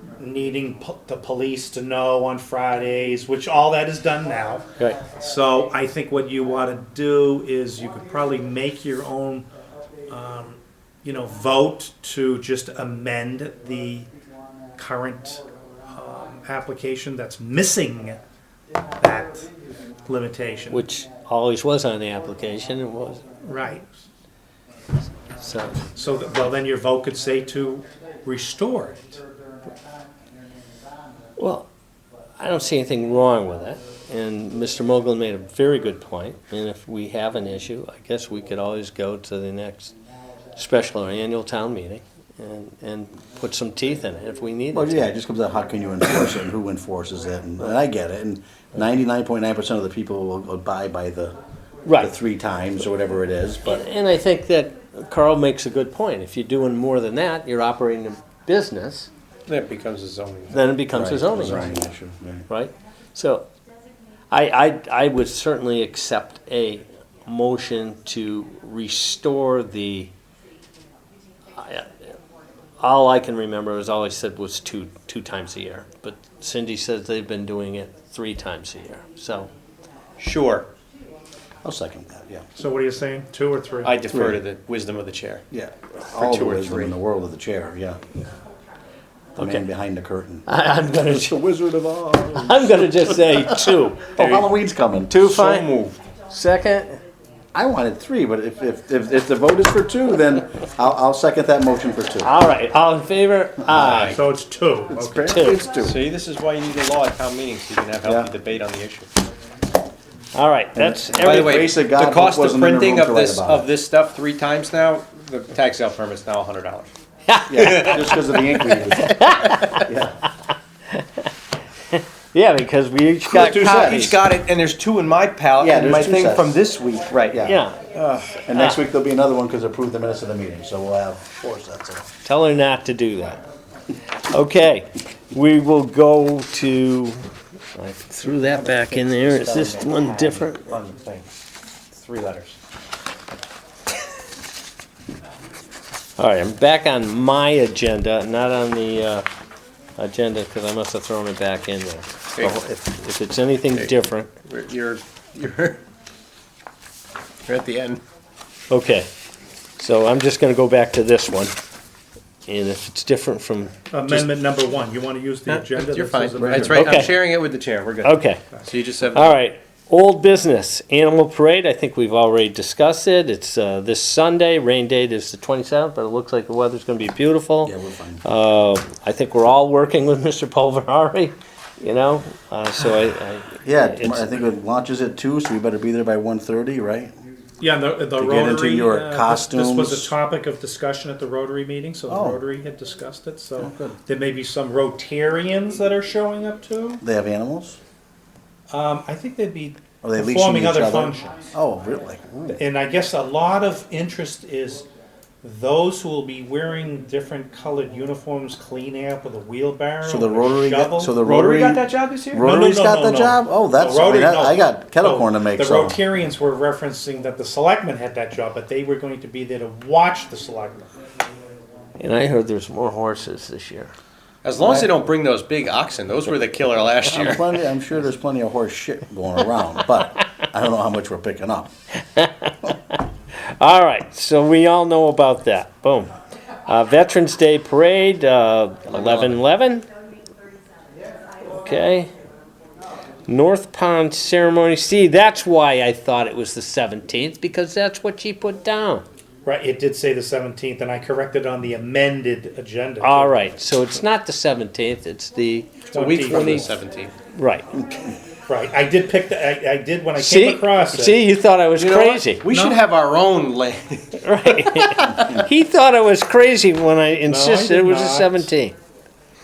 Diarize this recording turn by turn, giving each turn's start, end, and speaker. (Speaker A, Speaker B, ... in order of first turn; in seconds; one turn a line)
Speaker A: 0.2-9.5
Speaker A: 10.1-14.1
Speaker A: 14.8-18.2
Speaker A: 19.0-19.5
Speaker A: 20.1-20.9
Speaker B: 20.7-23.2
Speaker A: 23.4-24.1
Speaker B: 25.4-25.8
Speaker A: 25.9-29.2
Speaker B: 31.4-31.7
Speaker B: 32.4-39.9
Speaker B: 40.5-45.1
Speaker C: 44.7-51.4
Speaker B: 51.8-52.1
Speaker C: 52.0-53.8
Speaker B: 53.6-59.1
Speaker D: 59.5-60.7
Speaker B: 60.5-61.8
Speaker C: 60.9-62.5
Speaker B: 62.5-63.5
Speaker B: 64.3-70.1
Speaker B: 71.6-71.9
Speaker B: 72.8-79.5
Speaker D: 80.2-80.7
Speaker C: 81.6-82.4
Speaker A: 82.5-84.0
Speaker D: 83.8-85.4
Speaker C: 84.1-84.4
Speaker C: 85.5-88.0
Speaker D: 86.1-86.9
Speaker C: 89.3-90.5
Speaker B: 89.4-89.6
Speaker B: 90.5-91.3
Speaker C: 91.0-93.1
Speaker B: 92.3-94.2
Speaker C: 94.1-95.3
Speaker D: 94.2-94.5
Speaker B: 95.1-95.7
Speaker D: 95.2-96.0
Speaker B: 96.3-97.0
Speaker C: 97.5-102.3
Speaker B: 102.2-104.2
Speaker C: 103.7-104.1
Speaker D: 103.8-104.2
Speaker A: 103.9-105.3
Speaker C: 104.9-106.0
Speaker B: 105.2-105.7
Speaker D: 105.7-109.1
Speaker C: 108.0-108.3
Speaker B: 110.3-111.7
Speaker C: 110.7-113.7
Speaker D: 111.2-116.9
Speaker B: 117.3-120.0
Speaker C: 117.5-120.2
Speaker D: 117.5-118.2
Speaker B: 120.9-121.3
Speaker B: 121.9-124.2
Speaker C: 123.3-124.1
Speaker D: 123.4-128.4
Speaker C: 125.6-126.5
Speaker C: 127.2-127.6
Speaker B: 127.4-127.8
Speaker C: 128.4-132.1
Speaker B: 128.5-128.8
Speaker B: 132.2-133.4
Speaker B: 134.3-137.2
Speaker B: 137.8-140.7
Speaker C: 138.7-140.0
Speaker D: 139.4-141.3
Speaker D: 141.9-142.6
Speaker B: 146.2-149.3
Speaker B: 150.0-154.3
Speaker D: 154.4-155.8
Speaker D: 157.4-158.0
Speaker B: 158.7-159.1
Speaker B: 159.8-161.5
Speaker B: 162.5-164.3
Speaker A: 163.9-167.1
Speaker D: 165.5-169.4
Speaker C: 166.4-166.7
Speaker B: 166.7-167.1
Speaker B: 168.0-168.6
Speaker B: 169.1-184.4
Speaker C: 177.6-178.2
Speaker C: 183.6-187.1
Speaker A: 187.6-197.0
Speaker C: 188.2-190.1
Speaker C: 192.1-192.4
Speaker C: 193.6-194.0
Speaker C: 197.0-197.8
Speaker A: 198.7-201.4
Speaker C: 200.0-202.6
Speaker A: 202.5-204.9
Speaker A: 205.4-220.9
Speaker C: 210.0-216.0
Speaker B: 222.0-223.9
Speaker D: 224.4-227.4
Speaker C: 224.6-224.9
Speaker C: 227.1-231.7
Speaker B: 232.2-233.0
Speaker B: 233.6-236.1
Speaker B: 236.7-239.9
Speaker D: 238.9-239.4
Speaker B: 241.4-242.1
Speaker B: 243.3-249.1
Speaker A: 249.4-253.5
Speaker B: 253.0-256.7
Speaker A: 255.9-256.7
Speaker D: 255.9-257.1
Speaker B: 257.3-257.7
Speaker A: 258.5-261.2
Speaker B: 260.1-262.4
Speaker D: 261.8-265.0
Speaker A: 262.5-262.8
Speaker B: 264.2-268.8
Speaker A: 267.3-268.5